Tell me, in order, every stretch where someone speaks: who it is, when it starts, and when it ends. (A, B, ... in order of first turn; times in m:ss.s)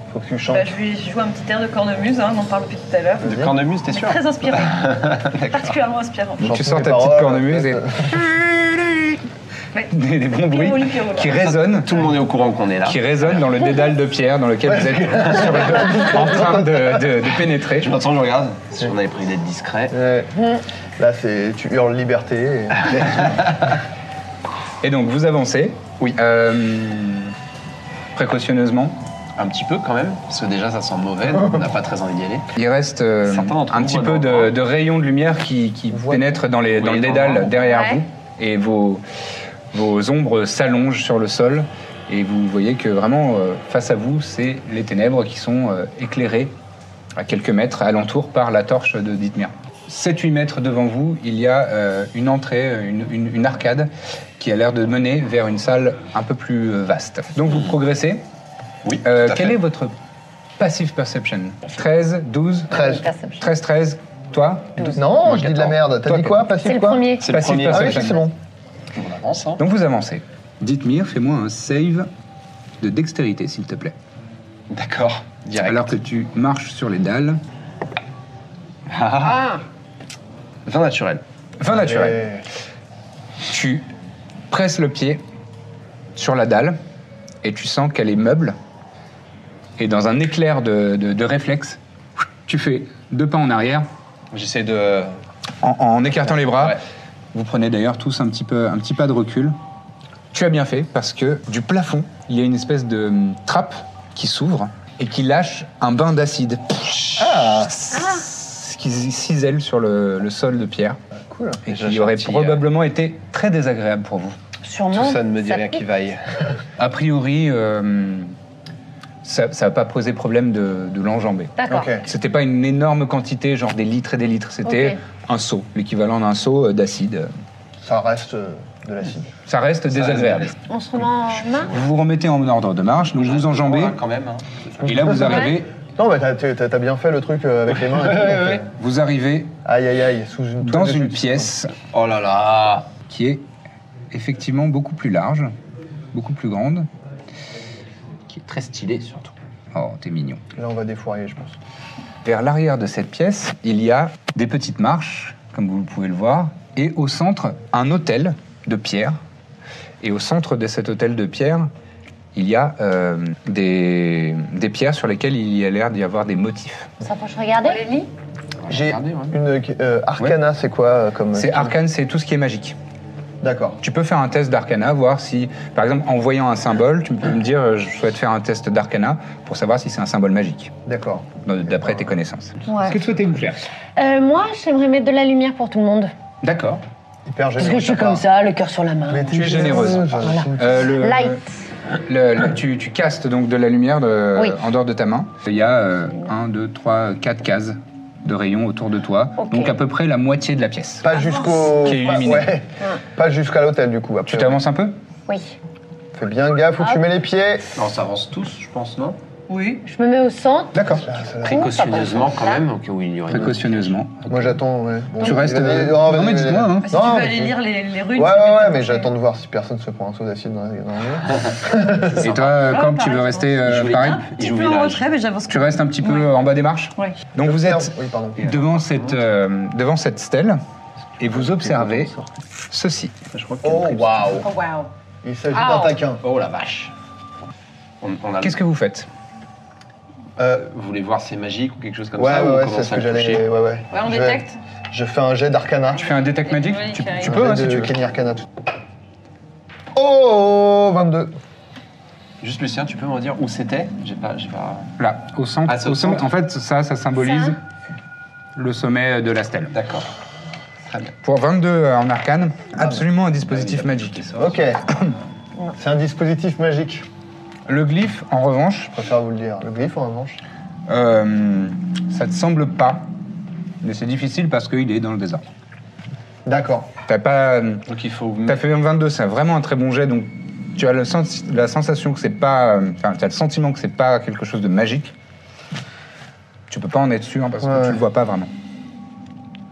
0:00.1-0:00.8 A
0:00.5-0:06.5 B
0:03.2-0:05.8 C
0:03.2-0:03.5 A
0:06.4-0:08.2 A
0:06.4-0:09.1 D
0:09.7-0:11.4 B
0:09.9-0:12.0 D
0:11.3-0:13.0 C
0:12.9-0:17.9 D
0:14.6-0:17.0 A
0:17.8-0:20.0 C
0:19.9-0:20.3 A
0:21.0-0:23.7 A
0:24.8-0:27.3 D
0:28.2-0:29.0 D
0:29.4-0:32.5 C
0:32.6-0:39.0 D
0:33.2-0:34.5 C
0:35.9-0:36.4 A
0:36.7-0:37.6 C
0:37.7-0:38.0 E
0:39.7-0:46.5 D
0:47.2-0:58.2 D
0:58.8-0:59.6 C
0:59.0-0:59.9 D
1:00.6-1:02.7 D
1:02.7-1:03.0 A
1:02.7-1:03.5 E
1:03.4-1:06.4 D
1:04.9-1:08.3 A
1:06.6-1:07.3 E
1:07.2-1:08.2 C
1:07.3-1:08.2 D
1:08.9-1:09.6 C
1:09.6-1:12.1 D
1:12.8-1:14.0 D
1:14.7-1:15.9 C
1:15.6-1:17.4 D
1:18.9-1:19.6 C
1:19.2-1:19.6 E
1:20.7-1:21.2 C
1:21.6-1:22.2 D
1:21.7-1:22.4 A
1:23.5-1:23.8 D
1:24.5-1:25.2 D
1:26.2-1:26.8 D
1:27.4-1:28.6 D
1:29.8-1:31.8 D
1:32.4-1:33.9 D
1:34.3-1:35.2 C
1:35.6-1:36.8 D
1:36.4-1:36.8 C
1:37.3-1:39.6 D
1:40.3-1:51.0 D
1:47.2-1:47.7 A
1:47.9-1:48.3 E
1:51.3-1:51.6 A
1:51.7-1:54.4 D
1:51.7-1:52.6 C
1:54.6-1:55.8 E
1:54.9-1:56.2 C
1:56.8-1:58.3 D
1:59.2-2:01.5 D
2:01.6-2:01.9 E
2:01.7-2:02.1 A
2:02.0-2:07.3 D
2:04.7-2:05.0 E
2:07.8-2:09.3 A
2:09.5-2:10.5 D
2:09.9-2:10.5 C
2:10.7-2:11.7 E
2:11.7-2:14.0 D
2:13.2-2:15.2 C
2:14.8-2:15.7 D
2:15.2-2:15.6 E
2:15.9-2:18.7 A
2:18.3-2:19.5 D
2:19.6-2:21.5 A
2:20.6-2:21.7 D
2:21.9-2:22.9 C
2:23.0-2:23.4 D
2:24.1-2:25.5 D
2:26.1-2:26.9 D
2:28.3-2:29.3 C
2:29.7-2:30.4 D
2:30.6-2:31.6 A
2:32.2-2:39.2 D
2:40.0-2:41.7 D
2:42.3-2:46.9 D
2:47.0-2:47.9 E
2:47.6-2:48.1 B
2:48.6-2:49.4 C
2:48.7-2:51.8 A
2:51.3-2:52.8 D
2:53.4-2:53.8 A
2:53.8-3:00.7 D
3:00.8-3:02.0 A
3:01.4-3:03.6 D
3:02.6-3:03.0 E
3:04.0-3:06.1 E
3:06.4-3:06.8 D
3:07.3-3:08.2 A
3:07.6-3:11.4 E
3:09.1-3:10.9 A
3:09.3-3:11.4 D
3:12.0-3:21.1 D
3:19.4-3:19.8 E
3:21.0-3:24.6 A
3:21.2-3:21.7 B
3:21.8-3:22.5 D
3:24.3-3:25.0 D
3:25.3-3:25.6 E
3:26.1-3:27.7 A
3:27.8-3:29.2 C
3:29.5-3:29.8 B
3:29.8-3:32.6 E
3:30.7-3:31.0 D
3:30.9-3:32.2 A
3:31.4-3:34.0 C
3:33.3-3:34.5 D
3:34.3-3:37.6 A
3:35.2-3:36.9 D
3:36.8-3:39.1 B
3:38.1-3:42.3 A
3:42.2-3:44.3 D
3:42.2-3:46.3 B
3:43.6-3:45.0 C
3:45.5-3:50.6 D
3:47.4-3:48.6 A
3:48.4-3:49.2 C
3:51.2-3:52.1 D
3:51.5-3:52.1 A
3:52.7-3:53.2 D
3:53.3-3:54.4 C
3:53.6-3:54.5 A
3:54.3-3:54.9 B
3:55.2-3:56.2 A
3:55.5-3:56.0 E
3:56.2-3:56.9 C
3:58.0-3:58.6 C
3:58.4-3:59.1 D
4:00.4-4:00.7 A
4:00.5-4:03.4 C
4:02.2-4:06.1 A
4:03.9-4:04.6 B
4:06.0-4:07.9 D
4:06.3-4:07.4 B
4:07.2-4:08.5 A
4:09.9-4:11.4 A
4:12.4-4:14.9 C
4:15.0-4:17.6 D
4:15.7-4:16.3 C
4:17.2-4:17.5 E
4:18.6-4:19.8 D
4:19.7-4:20.1 C
4:21.2-4:25.1 D
4:23.5-4:24.6 C
4:24.4-4:24.8 A
4:25.8-4:27.1 A
4:27.7-4:28.9 D
4:28.9-4:30.4 A
4:30.9-4:33.1 D
4:33.8-4:35.5 D
4:36.5-4:36.9 A
4:37.1-4:37.8 D
4:37.9-4:38.6 C
4:38.5-4:45.1 D
4:46.7-4:48.5 D
4:47.6-4:48.0 A